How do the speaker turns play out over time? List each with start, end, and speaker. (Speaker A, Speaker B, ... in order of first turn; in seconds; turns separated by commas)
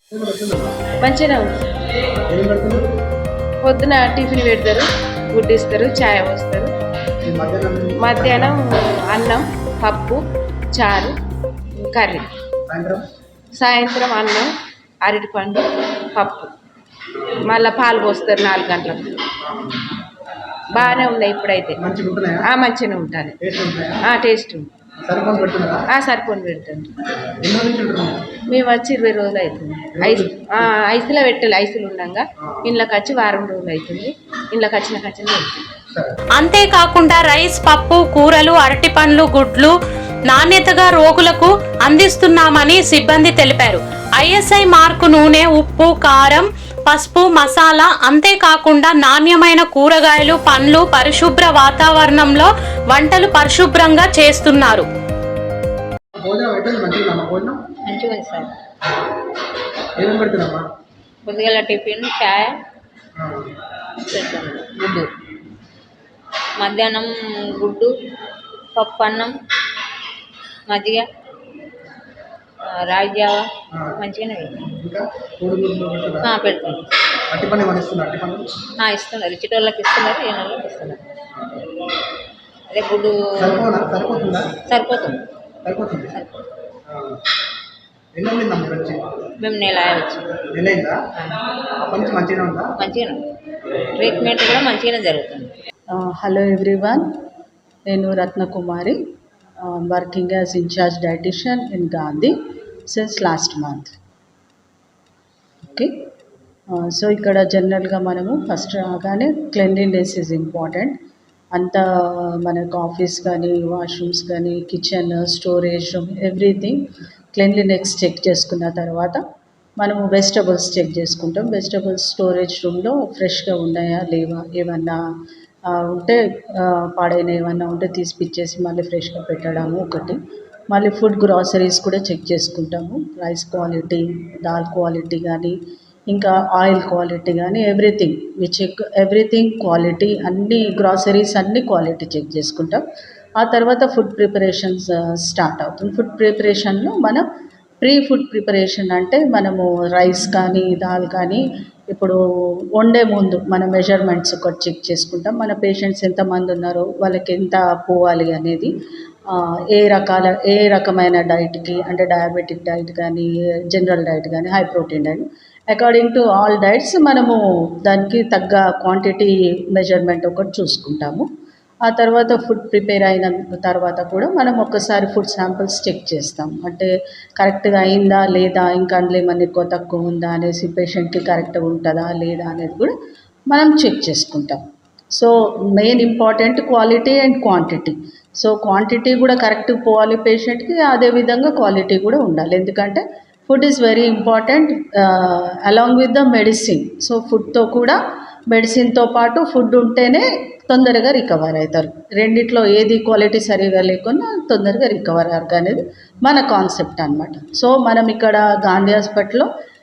Speaker A: 0.1-0.7, Speaker B: 1.0-1.5, Speaker A: 2.3-2.8, Speaker B: 3.6-6.7, Speaker A: 7.2-8.6, Speaker B: 8.0-10.2, Speaker B: 10.7-11.2, Speaker B: 11.8-12.3, Speaker A: 12.7-13.1, Speaker B: 13.6-14.5, Speaker B: 15.0-16.6, Speaker B: 17.5-19.2, Speaker A: 19.4-19.9, Speaker B: 20.8-21.8, Speaker A: 21.8-22.5, Speaker B: 22.5-23.4, Speaker A: 23.4-24.0, Speaker B: 24.1-24.7, Speaker A: 25.0-25.8, Speaker B: 25.9-26.9, Speaker A: 27.2-28.3, Speaker B: 28.5-35.6, Speaker A: 29.9-30.7, Speaker C: 36.4-39.7, Speaker C: 40.3-54.9, Speaker A: 56.1-57.6, Speaker D: 57.9-58.5, Speaker A: 60.0-60.6, Speaker D: 61.2-62.6, Speaker A: 63.2-63.5, Speaker D: 64.1-65.1, Speaker D: 66.6-67.9, Speaker D: 68.7-69.3, Speaker D: 70.7-71.1, Speaker D: 72.6-74.7, Speaker A: 74.6-76.3, Speaker D: 76.2-76.9, Speaker A: 77.3-78.5, Speaker D: 78.8-81.0, Speaker D: 82.7-83.7, Speaker A: 83.3-84.5, Speaker D: 84.7-85.2, Speaker A: 85.6-86.2, Speaker A: 86.9-87.2, Speaker A: 88.1-89.1, Speaker D: 89.4-90.4, Speaker A: 90.5-91.0, Speaker D: 91.1-91.4, Speaker A: 91.8-92.7, Speaker D: 92.8-93.2, Speaker D: 94.0-95.5, Speaker E: 95.9-97.0, Speaker E: 97.9-99.0, Speaker E: 99.6-102.3, Speaker E: 102.9-103.9, Speaker E: 106.7-111.0, Speaker E: 111.5-116.8, Speaker E: 117.3-119.2, Speaker E: 119.8-125.0, Speaker E: 125.7-130.2, Speaker E: 130.7-135.5, Speaker E: 136.1-142.8, Speaker E: 143.4-147.2, Speaker E: 147.8-152.2, Speaker E: 152.8-158.7, Speaker E: 159.3-171.2, Speaker E: 171.9-182.9, Speaker E: 183.5-184.6, Speaker E: 185.2-198.0, Speaker E: 198.5-209.5